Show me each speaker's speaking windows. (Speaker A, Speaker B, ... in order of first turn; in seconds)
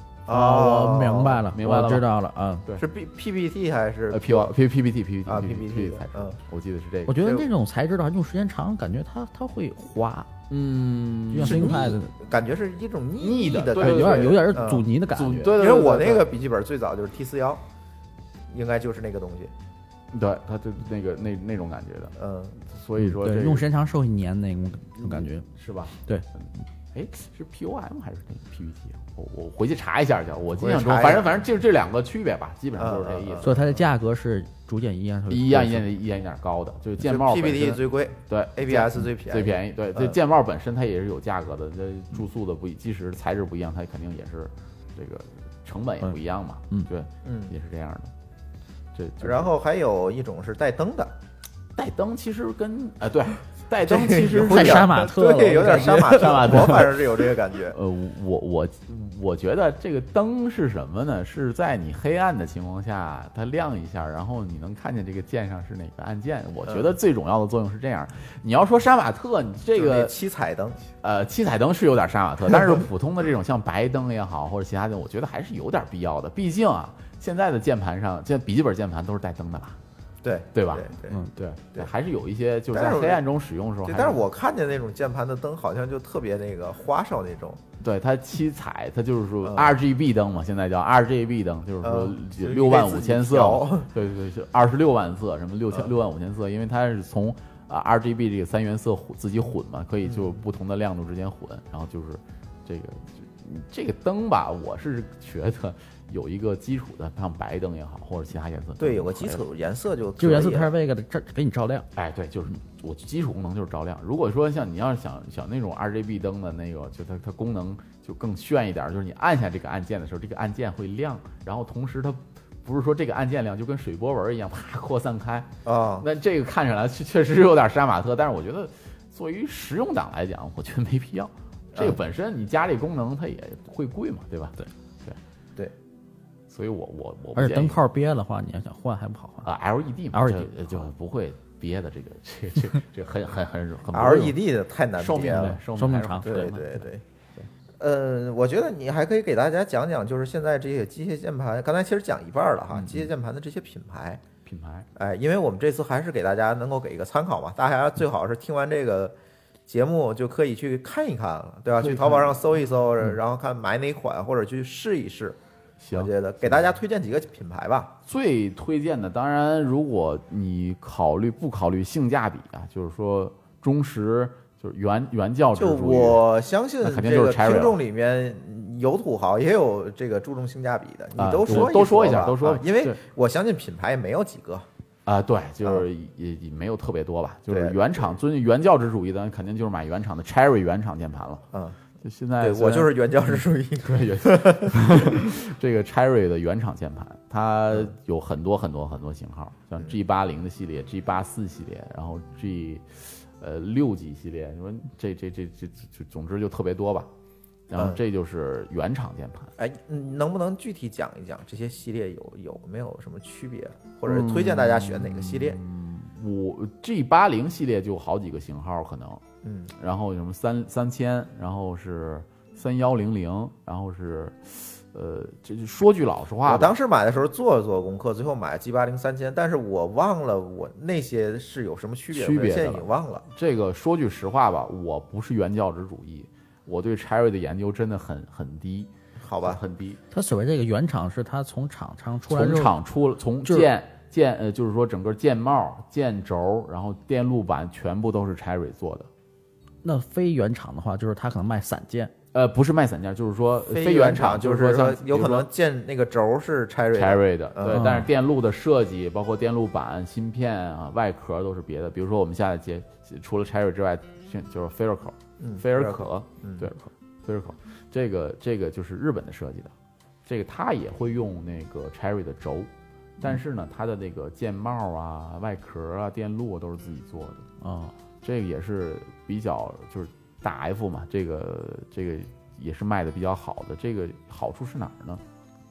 Speaker A: 0.2-1.4, 2.8-4.5, 5.2-6.4, 11.4-14.9, 15.5-17.6, 18.5-19.5, 22.2-22.6, 30.6-31.3, 32.8-33.6, 37.0-40.2, 47.2-47.5, 49.2-51.1, 53.8-57.8, 66.7-66.9, 69.7-70.8, 80.2-81.2, 82.7-83.2, 83.8-87.6, 89.4-89.8, 91.8-93.9, 100.0-100.4, 108.8-110.7, 125.6-126.0, 143.9-145.6, 146.2-147.0, 147.8-154.2, 154.9-159.2, 159.7-165.4, 165.9-167.9, 175.5-184.7, 187.5-188.1, 191.5-191.8, 192.4-195.3, 209.6-215.6, 219.4-219.7, 226.4-233.2, 239.2-239.6, 253.7-257.9, 265.4-266.7
Speaker B: 0.3-2.6, 7.1-10.3, 11.3-12.1, 13.8-15.5, 23.0-25.5, 33.4-35.8, 54.5-56.8, 110.2-111.8, 137.3-139.5, 140.1-140.5, 145.7-146.6, 240.1-242.7, 249.8-252.1, 257.7-258.1, 277.6-277.9
Speaker C: 1.5-2.1, 4.1-7.4, 10.5-11.9, 13.2-16.3, 20.1-23.6, 25.0-33.5, 35.3-48.1, 48.9-49.5, 51.8-55.0, 56.0-57.1, 57.7-70.1, 71.0-79.8, 80.5-84.2, 87.8-109.4, 111.9-135.2, 136.5-137.8, 139.4-144.4, 145.0-146.7, 152.7-153.1, 154.4-154.9, 161.8-162.6, 165.8-166.7, 168.1-176.3, 176.8-177.8, 181.2-183.0, 185.1-191.4, 192.0-207.1, 207.7-209.5, 214.1-219.2, 219.8-226.7, 232.1-240.0, 242.3-249.1, 252.3-255.5, 256.9-269.7, 270.2-272.7, 273.2-277.4, 278.2-285.2